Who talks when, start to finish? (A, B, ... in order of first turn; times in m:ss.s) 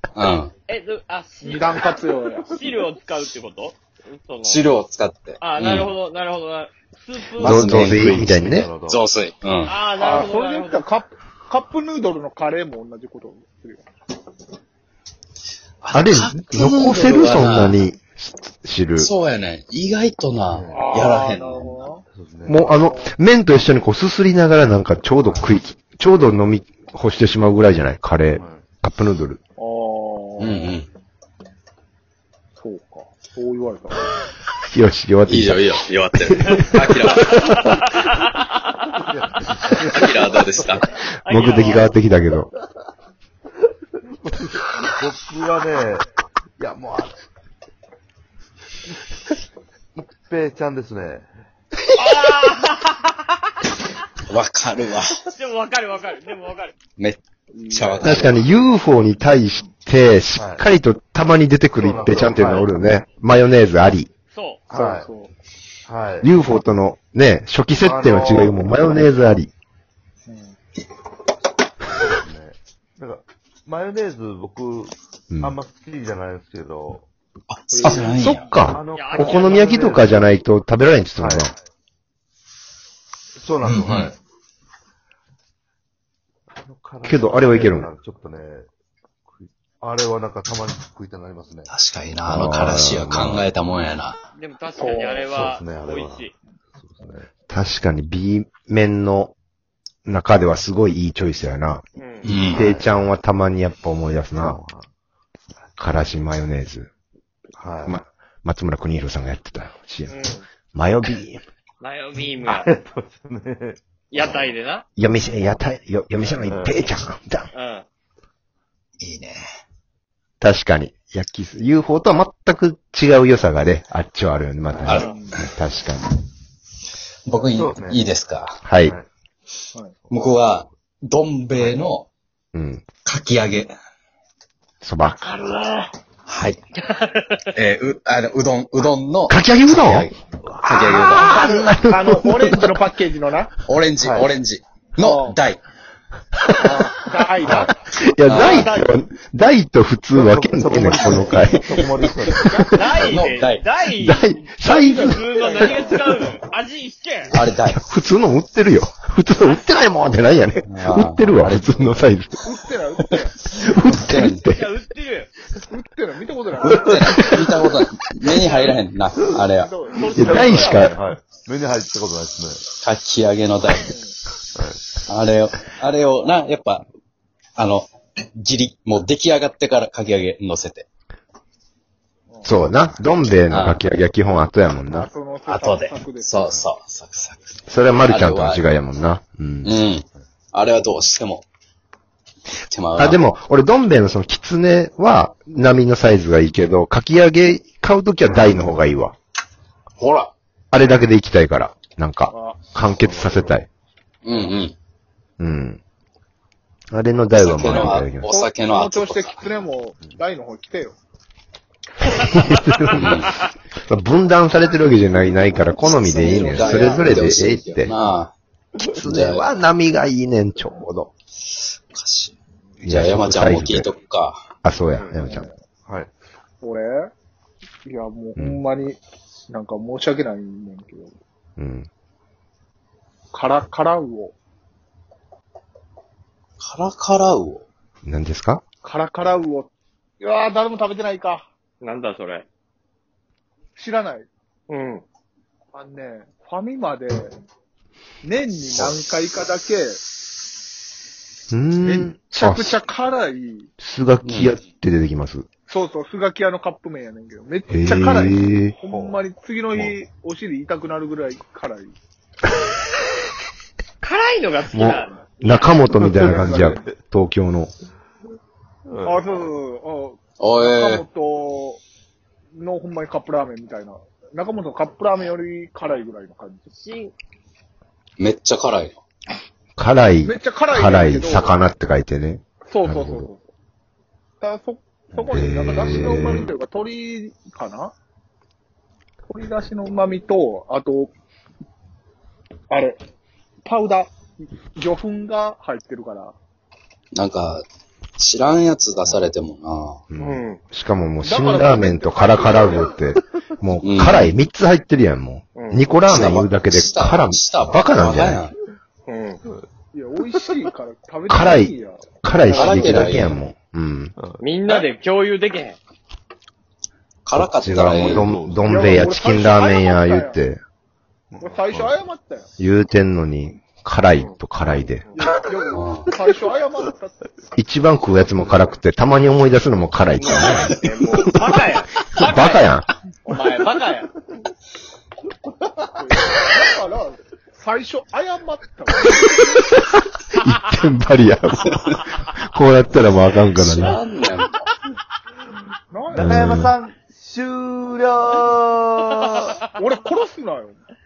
0:00.2-0:00.5 A
0:00.7-0:04.6 B
0:01.4-0:02.5 C
0:04.4-0:05.9 A
0:05.4-0:07.9 B
0:07.4-0:08.7 D
0:07.4-0:09.7 A
0:07.6-0:09.0 E
0:09.6-0:10.8 B
0:10.0-0:13.9 C
0:15.8-0:17.8 A
0:15.9-0:19.1 D
0:19.0-0:21.8 A
0:20.5-0:21.0 E
0:20.7-0:22.0 C
0:22.1-0:22.6 E
0:22.5-0:29.4 D
0:22.6-0:23.1 C
0:28.3-0:28.6 E
0:29.6-0:30.8 C
0:30.4-0:30.9 A
0:32.6-0:34.2 C
0:34.7-0:35.6 D
0:35.3-0:37.6 A
0:36.3-0:37.8 D
0:38.9-0:40.8 E
0:39.8-0:40.9 A
0:41.2-0:42.5 D
0:41.2-0:41.9 B
0:44.2-0:47.2 E
0:50.0-0:51.3 E
0:52.0-0:53.2 B
0:54.3-0:55.2 A
0:55.3-0:56.7 B
0:57.0-0:58.4 A
0:57.5-0:58.3 C
0:58.0-1:04.1 D
1:00.4-1:00.6 E
1:01.7-1:02.7 E
1:04.3-1:04.6 B
1:04.7-1:05.1 E
1:04.7-1:05.3 C
1:05.9-1:06.3 E
1:06.2-1:09.5 D
1:07.8-1:08.7 E
1:10.3-1:10.6 C
1:11.8-1:17.1 E
1:17.5-1:18.5 A
1:17.7-1:18.4 C
1:18.1-1:21.5 D
1:18.5-1:20.3 E
1:18.9-1:19.8 B
1:21.2-1:21.6 E
1:23.4-1:24.2 E
1:23.6-1:24.2 A
1:26.6-1:28.7 E
1:27.0-1:27.9 D
1:29.3-1:31.7 E
1:31.7-1:34.2 A
1:32.3-1:33.5 D
1:34.4-1:36.3 B
1:34.8-1:35.4 C
1:35.3-1:37.3 E
1:37.5-1:39.3 D
1:40.1-1:44.6 D
1:42.0-1:42.3 B
1:42.2-1:42.7 A
1:42.6-1:42.9 E
1:44.3-1:44.9 E
1:45.8-1:46.9 D
1:47.6-1:48.0 E
1:47.8-1:51.4 D
1:50.1-1:50.4 B
1:51.8-1:52.7 B
1:52.4-1:54.5 E
1:54.1-1:54.9 B
1:55.0-1:57.5 D
1:56.3-1:56.8 E
1:57.5-1:57.9 B
1:59.0-1:59.4 A
2:00.4-2:06.1 D
2:04.8-2:05.0 E
2:04.8-2:05.4 A
2:04.9-2:05.4 C
2:07.3-2:08.6 A
2:07.3-2:08.2 E
2:08.6-2:09.0 D
2:08.8-2:09.1 E
2:10.0-2:10.7 E
2:10.1-2:12.1 A
2:12.5-2:12.9 D
2:13.0-2:13.7 A
2:14.8-2:15.2 D
2:15.3-2:15.8 B
2:16.3-2:16.6 A
2:16.8-2:17.4 B
2:17.5-2:21.4 A
2:19.3-2:22.7 D
2:21.0-2:23.5 C
2:23.7-2:25.6 A
2:24.0-2:24.3 E
2:25.0-2:25.4 C
2:26.4-2:31.9 D
2:26.6-2:29.0 C
2:28.2-2:28.7 A
2:30.1-2:32.6 E
2:31.0-2:32.0 A
2:32.4-2:32.8 C
2:32.5-2:33.2 D
2:32.7-2:37.4 B
2:33.0-2:33.6 A
2:33.9-2:35.8 D
2:34.7-2:36.1 C
2:35.8-2:36.4 E
2:37.3-2:37.8 A
2:37.6-2:42.5 D
2:40.6-2:42.1 A
2:42.4-2:43.4 C
2:43.5-2:44.7 D
2:43.9-2:44.4 A
2:44.4-2:45.3 B
2:45.7-2:47.3 C
2:46.6-2:49.7 A
2:46.9-2:47.8 D
2:49.3-2:52.7 E
2:49.5-2:51.0 C
2:50.1-2:50.8 B
2:50.1-2:51.0 D
2:52.8-2:54.0 A
2:53.8-2:54.1 C
2:54.5-2:54.9 E
2:55.0-2:56.9 A
2:57.6-3:00.9 A
3:02.3-3:02.6 C
3:02.4-3:05.1 D
3:03.5-3:03.8 A
3:04.8-3:06.6 C
3:05.4-3:07.4 A
3:07.7-3:09.8 D
3:08.0-3:08.6 A
3:09.6-3:11.4 A
3:12.7-3:13.2 A
3:13.0-3:19.2 D
3:20.0-3:20.3 A
3:20.7-3:23.7 D
3:22.3-3:22.8 C
3:23.0-3:23.4 E
3:24.2-3:24.8 A
3:25.4-3:25.8 D
3:26.9-3:28.3 D
3:27.3-3:29.4 A
3:27.7-3:31.0 C
3:32.0-3:38.0 D
3:32.9-3:33.4 A
3:36.0-3:38.3 A
3:36.2-3:37.0 C
3:38.8-3:41.1 D
3:39.0-3:39.5 A
3:41.9-3:44.4 A
3:42.8-3:43.9 D
3:44.6-3:45.5 D
3:45.2-3:45.6 C
3:45.9-3:46.1 E
3:46.6-3:47.1 C
3:47.8-3:51.1 C
3:48.4-3:48.6 D
3:51.6-3:51.9 D
3:53.3-3:54.3 C
3:56.6-3:57.6 A
3:58.0-3:58.6 D
3:58.8-4:01.5 C
4:01.8-4:02.4 B
4:03.8-4:04.3 C
4:04.7-4:05.0 B
4:05.7-4:07.3 C
4:08.2-4:10.0 C
4:11.5-4:12.8 D
4:11.8-4:13.7 C
4:13.8-4:15.5 D
4:14.2-4:14.6 A
4:15.7-4:22.0 C
4:17.7-4:18.7 D
4:18.8-4:19.2 E
4:24.0-4:25.8 B
4:24.7-4:27.7 D
4:26.1-4:26.9 E
4:28.9-4:29.4 E
4:29.0-4:31.8 C
4:30.4-4:31.0 A
4:32.6-4:36.7 C
4:36.7-4:37.1 B
4:38.2-4:39.0 A
4:39.8-4:43.3 D
4:40.2-4:41.6 C
4:42.7-4:43.5 C
4:44.4-4:47.9 C
4:45.1-4:46.4 E
4:45.3-4:46.5 D
4:49.3-4:51.1 C
4:52.7-4:53.0 C
4:53.6-4:56.4 C
4:57.1-4:57.6 A
4:58.2-5:00.0 A
5:00.1-5:08.5 D
5:00.2-5:00.6 B
5:01.2-5:03.0 C
5:03.8-5:04.4 A
5:05.6-5:05.8 B
5:06.1-5:08.6 A
5:09.1-5:09.4 B
5:09.9-5:13.0 C
5:11.3-5:14.1 D
5:12.5-5:13.4 A
5:14.4-5:15.8 B
5:17.2-5:18.3 A
5:17.4-5:20.6 D
5:17.8-5:18.8 E
5:18.6-5:20.4 C
5:21.3-5:22.0 E
5:21.4-5:22.5 C
5:22.6-5:25.3 D
5:25.2-5:27.3 C
5:25.7-5:26.1 A
5:27.6-5:31.4 D
5:30.2-5:32.6 B
5:32.2-5:32.9 D
5:33.2-5:34.1 B
5:36.0-5:39.8 C
5:39.8-5:44.0 D
5:43.6-5:44.6 A
5:45.9-5:46.4 C
5:46.1-5:49.6 E
5:46.1-5:46.7 D
5:49.2-5:49.6 B
5:49.7-5:50.8 C